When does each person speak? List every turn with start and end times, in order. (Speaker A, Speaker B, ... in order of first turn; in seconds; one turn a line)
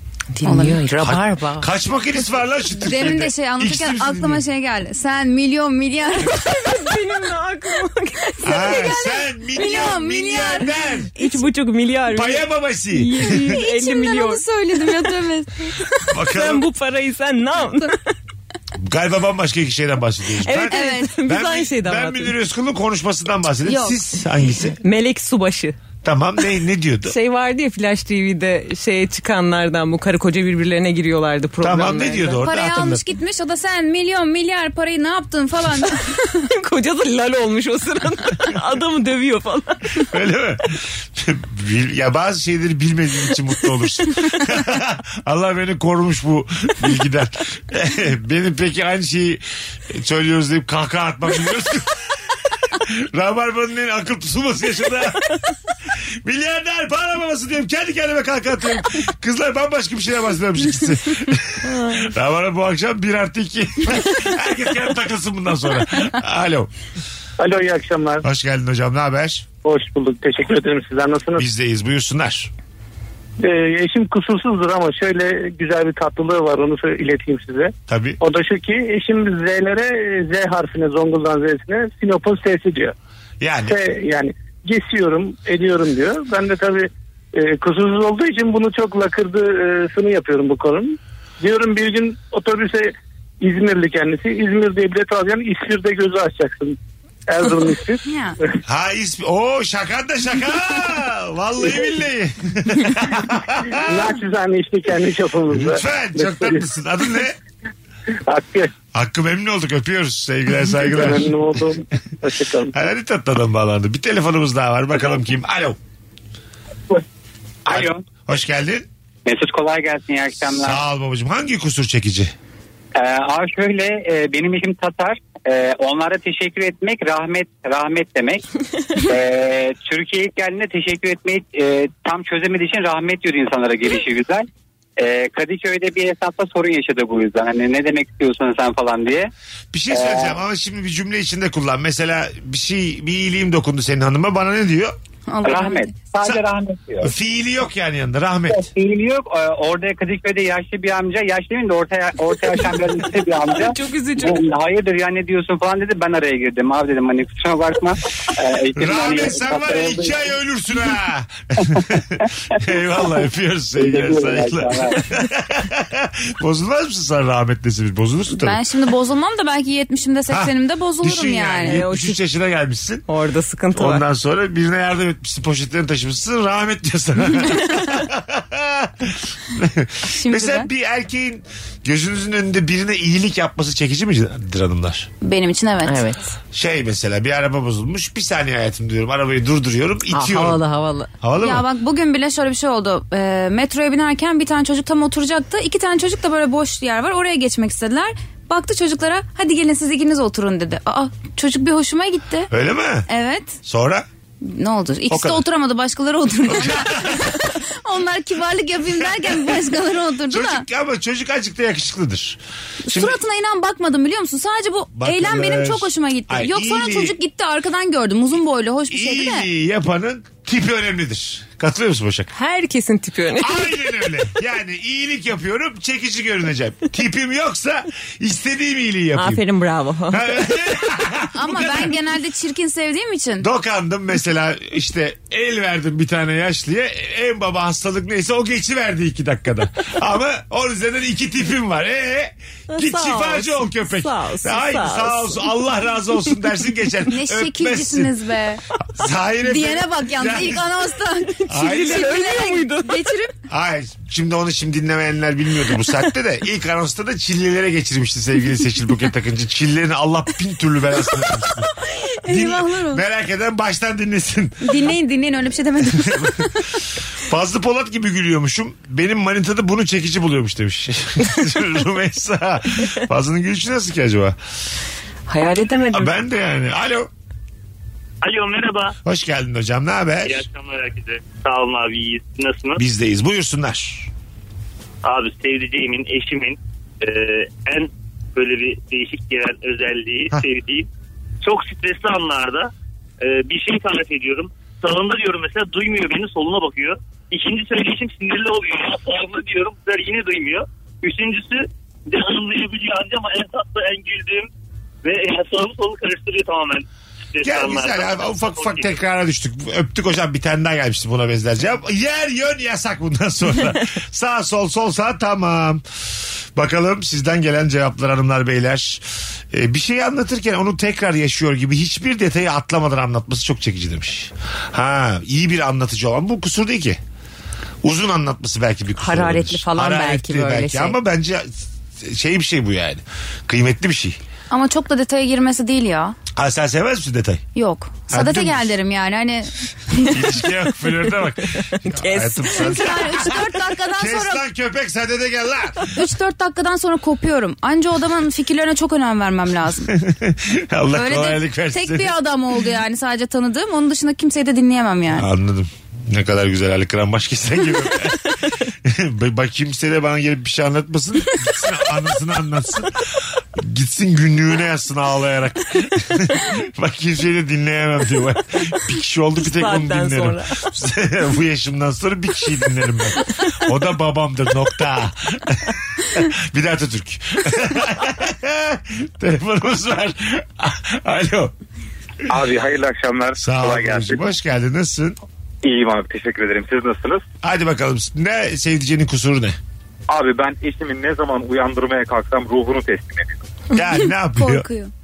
Speaker A: 0.3-1.7
Speaker B: 0.5-0.8
Speaker C: 1.0-4.4
Speaker B: 2.8-6.5
Speaker A: 6.4-8.9
Speaker B: 8.4-10.8
Speaker C: 8.4-11.1
Speaker A: 11.2-14.4
Speaker C: 12.1-13.6
Speaker B: 13.5-16.0
Speaker C: 16.1-16.6
Speaker A: 16.3-18.0
Speaker C: 18.8-24.8
Speaker A: 20.4-22.3
Speaker B: 20.7-21.1
Speaker B: 23.6-24.0
Speaker A: 24.8-25.8
Speaker C: 26.0-27.1
Speaker A: 27.1-32.4
Speaker C: 31.6-33.0
Speaker B: 32.4-36.2
Speaker A: 36.6-40.1
Speaker C: 40.1-52.0
Speaker C: 52.7-55.2
Speaker C: 56.2-66.7
Speaker A: 61.6-62.1
Speaker D: 67.4-68.2
Speaker C: 68.2-69.5
Speaker D: 69.7-71.4
Speaker C: 71.4-72.5
Speaker D: 73.4-82.9
Speaker C: 77.9-78.2
Speaker C: 83.4-83.8
Speaker D: 83.7-98.0
Speaker B: 98.1-98.4
Speaker C: 98.7-104.1
Speaker D: 103.8-106.7
Speaker C: 105.5-107.4
Speaker D: 108.3-108.7
Speaker C: 108.9-111.3
Speaker D: 110.7-112.7
Speaker C: 112.7-115.8
Speaker C: 117.7-118.9
Speaker E: 117.7-118.0
Speaker E: 119.3-120.8
Speaker C: 120.5-122.3
Speaker E: 123.0-128.4
Speaker E: 129.0-139.3
Speaker C: 139.7-144.9
Speaker E: 139.9-140.4
Speaker B: 145.3-146.0
Speaker E: 145.4-147.1
Speaker C: 147.0-148.7
Speaker E: 148.5-160.3
Speaker A: 153.5-154.5
Speaker C: 158.8-168.6
Speaker E: 163.8-165.0
Speaker B: 168.3-171.8
Speaker C: 170.3-173.0
Speaker A: 171.7-172.2
Speaker A: 173.1-174.0
Speaker C: 173.7-185.1
Speaker B: 180.1-180.7
Speaker B: 185.2-186.0
Speaker A: 185.9-186.3
Speaker C: 186.5-190.6
Speaker A: 190.1-191.1
Speaker C: 191.2-191.7
Speaker B: 191.4-202.5
Speaker C: 202.5-203.1
Speaker B: 203.1-203.6
Speaker C: 203.6-204.1
Speaker B: 204.4-210.6
Speaker C: 205.1-205.4
Speaker C: 206.5-207.3
Speaker C: 209.0-209.6
Speaker C: 210.3-213.2
Speaker B: 212.9-219.4
Speaker C: 214.9-217.2
Speaker C: 218.9-222.3
Speaker A: 222.3-223.7
Speaker C: 223.4-229.4
Speaker A: 229.2-230.3
Speaker C: 230.1-232.0
Speaker B: 231.4-233.5
Speaker C: 233.4-248.1
Speaker A: 242.7-245.6
Speaker B: 247.1-248.6
Speaker C: 248.9-250.7
Speaker B: 249.4-253.3
Speaker A: 251.4-253.0
Speaker C: 251.5-252.2
Speaker C: 253.5-261.7
Speaker B: 262.2-263.0
Speaker C: 262.3-264.8
Speaker B: 264.6-266.5
Speaker C: 265.9-266.4
Speaker C: 267.3-274.4
Speaker A: 275.3-276.1
Speaker C: 275.9-277.1
Speaker F: 278.2-278.9
Speaker C: 279.1-280.5
Speaker F: 280.3-282.8
Speaker C: 282.8-284.1
Speaker F: 285.0-290.9
Speaker F: 291.4-292.7
Speaker F: 293.2-304.5
Speaker F: 305.0-308.9
Speaker C: 307.4-315.8
Speaker C: 316.6-327.0
Speaker C: 327.8-334.2
Speaker A: 329.0-331.0
Speaker B: 334.5-336.2
Speaker C: 336.4-337.4
Speaker B: 337.6-340.3
Speaker C: 338.1-338.7
Speaker C: 340.1-345.9
Speaker A: 341.7-342.9
Speaker B: 342.6-344.4
Speaker B: 345.9-349.9
Speaker C: 349.9-352.2
Speaker B: 350.9-355.3
Speaker C: 355.1-381.5
Speaker A: 369.4-370.6
Speaker G: 382.3-384.2
Speaker C: 383.4-385.2
Speaker G: 385.6-387.2
Speaker C: 387.4-389.6
Speaker G: 390.1-393.4
Speaker C: 393.7-394.7
Speaker B: 394.4-394.9